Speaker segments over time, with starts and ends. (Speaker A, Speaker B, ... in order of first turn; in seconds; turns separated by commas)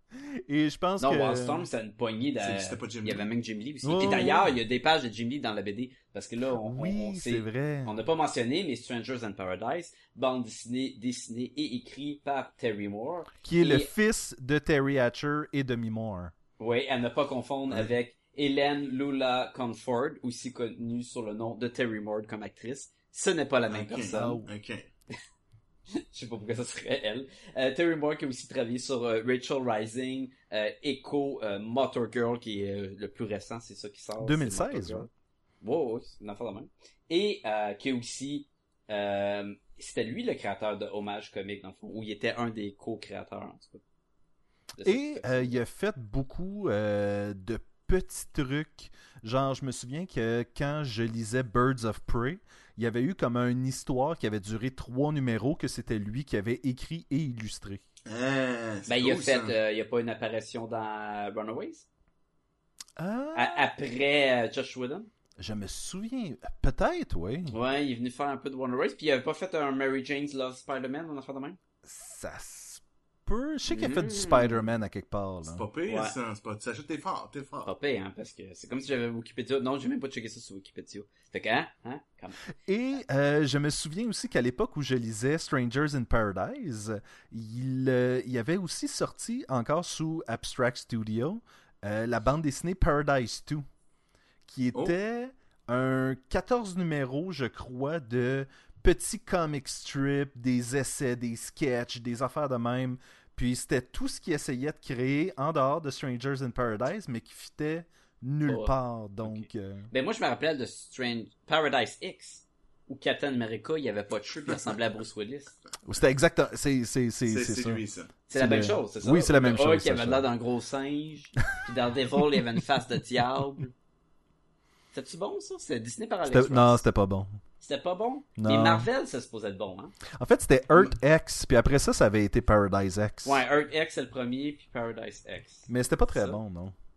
Speaker A: 0.3-1.6, Speaker B: 1.0-13.9, Speaker C: 2.4-3.2, Speaker A: 3.8-4.5, Speaker A: 6.6-7.9, Speaker A: 13.4-16.3, Speaker B: 16.6-24.4, Speaker C: 23.7-24.9, Speaker A: 24.1-24.5, Speaker B: 26.1-35.1, Speaker A: 34.2-35.1, Speaker B: 35.6-43.8, Speaker B: 44.7-45.6, Speaker A: 44.8-57.8, Speaker C: 58.0-59.5, Speaker B: 58.9-61.9, Speaker A: 63.0-63.6, Speaker B: 63.3-65.1, Speaker A: 65.4-67.5, Speaker B: 67.5-71.6, Speaker A: 71.8-75.6, Speaker B: 73.7-74.6, Speaker C: 75.5-77.7, Speaker B: 75.8-76.2, Speaker B: 77.6-82.4, Speaker A: 82.7-93.7, Speaker A: 94.5-109.9, Speaker B: 108.5-115.5, Speaker A: 115.8-117.8, Speaker C: 117.2-118.1, Speaker B: 118.3-123.7, Speaker A: 118.3-120.3, Speaker B: 124.9-126.8, Speaker A: 126.3-127.4, Speaker B: 127.6-129.9, Speaker A: 128.4-128.9, Speaker A: 130.2-133.4, Speaker B: 133.2-136.4, Speaker A: 135.7-136.7